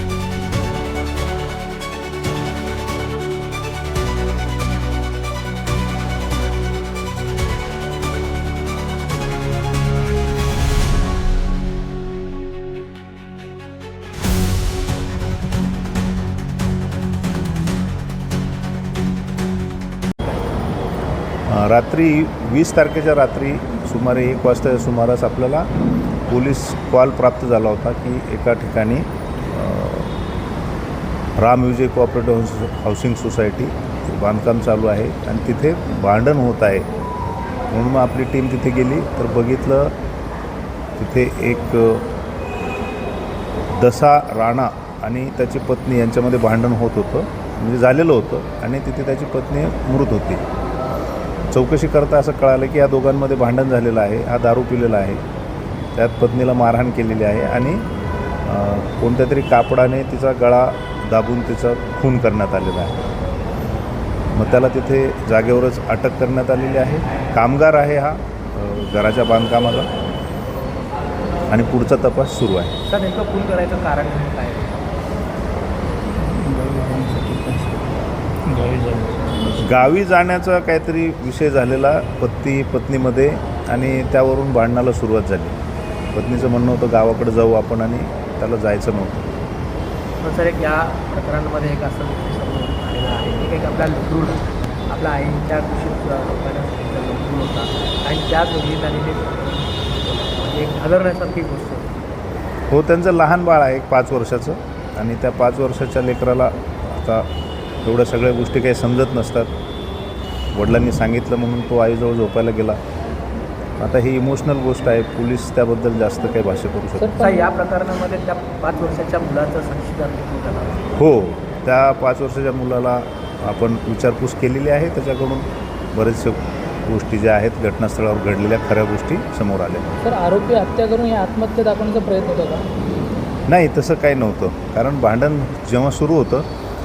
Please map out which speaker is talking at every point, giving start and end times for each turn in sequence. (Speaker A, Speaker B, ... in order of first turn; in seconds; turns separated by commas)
Speaker A: 21.5-25.7, Speaker A: 26.3-30.1, Speaker A: 31.4-36.9, Speaker A: 37.7-39.9, Speaker A: 41.0-42.1, Speaker A: 43.7-50.4, Speaker A: 51.5-55.2, Speaker A: 56.0-57.8, Speaker A: 58.4-63.0, Speaker A: 64.3-69.9, Speaker A: 71.5-72.7, Speaker B: 72.9-74.8, Speaker C: 76.2-77.9, Speaker C: 78.5-79.6, Speaker A: 79.6-85.5, Speaker A: 86.1-89.3, Speaker B: 90.2-101.9, Speaker A: 102.7-107.3, Speaker A: 107.8-109.5, Speaker A: 110.5-112.8, Speaker A: 113.8-117.1, Speaker C: 117.0-117.5, Speaker B: 117.2-120.9, Speaker A: 121.0-129.8, Speaker C: 130.0-132.7, Speaker A: 133.5-136.4